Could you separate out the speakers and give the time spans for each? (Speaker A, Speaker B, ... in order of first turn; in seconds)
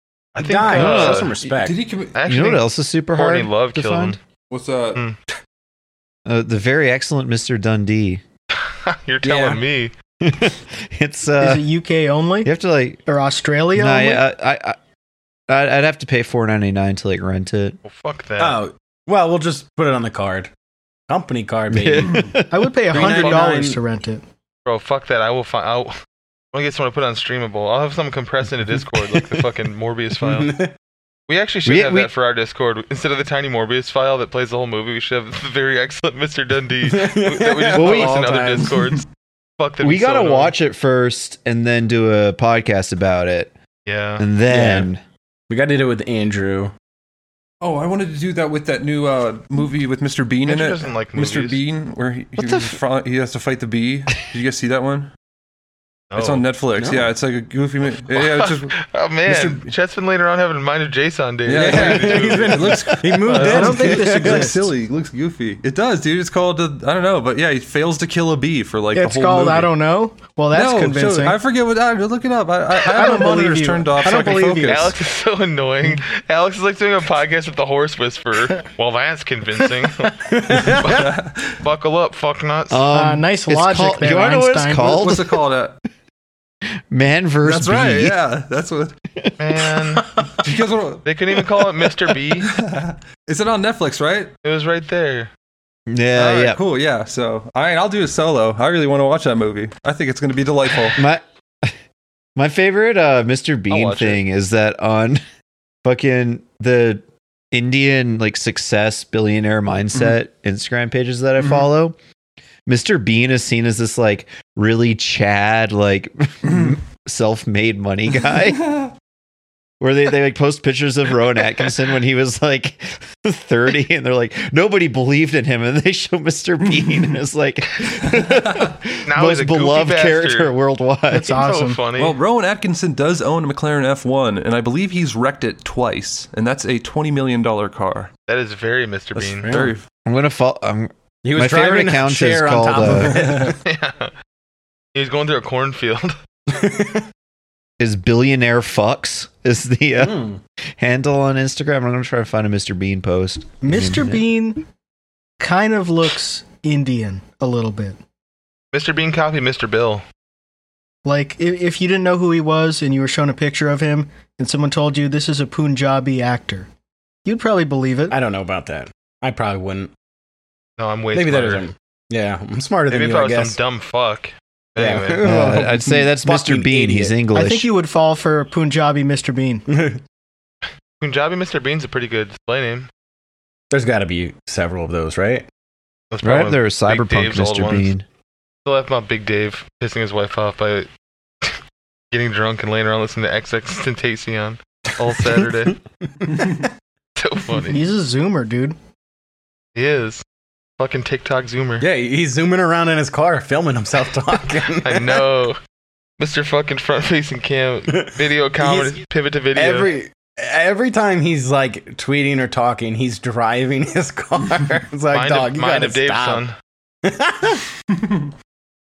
Speaker A: 0.3-1.3, 2.1-4.2, 8.6-9.9, 17.8-18.6, 24.6-26.0, 26.5-30.5, 31.3-39.0, 39.6-40.5, 43.9-44.2, 50.5-51.6, 56.1-56.5, 58.1-64.0, 74.6-80.1, 81.6-82.8, 89.4-90.1, 91.0-92.5, 94.4-95.3, 103.7-104.2, 129.1-130.5, 131.3-132.2, 138.3-139.5, 143.6-144.1, 144.9-146.2, 158.7-160.0, 170.8-171.7, 172.9-175.5, 181.0-182.9, 186.1-187.9, 188.6-190.9, 192.1-195.8, 197.2-197.8, 199.7-200.2, 200.8-201.8, 204.8-205.6, 206.2-209.9, 215.1-216.5
Speaker B: 0.4-1.8, 9.2-9.6, 18.4-20.5, 21.1-22.3, 22.9-23.8, 30.2-30.7, 36.8-39.0, 44.5-44.9, 45.5-46.7, 56.8-57.1, 59.3-59.6, 61.5-64.6, 80.2-81.0, 139.2-139.7, 141.2-143.6, 146.5-147.0, 150.0-150.4, 168.1-169.9, 171.1-173.6, 174.8-177.1, 179.7-180.0, 183.7-185.4, 196.2-196.5, 201.8-205.2, 207.9-209.0, 209.5-216.4, 217.0-217.6
Speaker C: 0.7-1.3, 2.3-4.2, 6.2-8.2, 10.2-11.7, 12.4-13.0, 13.7-14.8, 15.5-17.8, 21.7-22.7, 31.6-32.1, 37.7-38.3, 39.8-43.5, 44.2-45.0, 52.4-52.8, 82.7-85.4, 86.9-88.2, 95.9-96.6, 101.0-101.8, 102.3-105.2, 105.8-112.0, 112.7-118.8, 119.8-131.4, 140.0-143.3, 147.8-154.2, 175.2-177.7, 186.2-188.0
Speaker D: 1.4-2.1, 4.5-5.0, 47.6-55.1, 56.1-58.7, 61.5-69.7, 70.5-74.9, 80.9-81.6, 84.9-85.8, 87.4-88.9, 90.4-91.0, 92.4-94.3, 96.1-101.0, 116.5-116.7, 118.6-118.9, 132.0-138.1, 139.5-139.8
Speaker E: 11.4-12.5, 13.1-14.2, 22.5-24.2, 63.4-64.6, 68.9-71.4, 72.9-74.9, 82.9-85.0, 131.1-131.8, 153.6-154.6, 155.4-158.0, 161.0-166.7, 167.2-168.1, 177.3-179.6, 197.7-198.8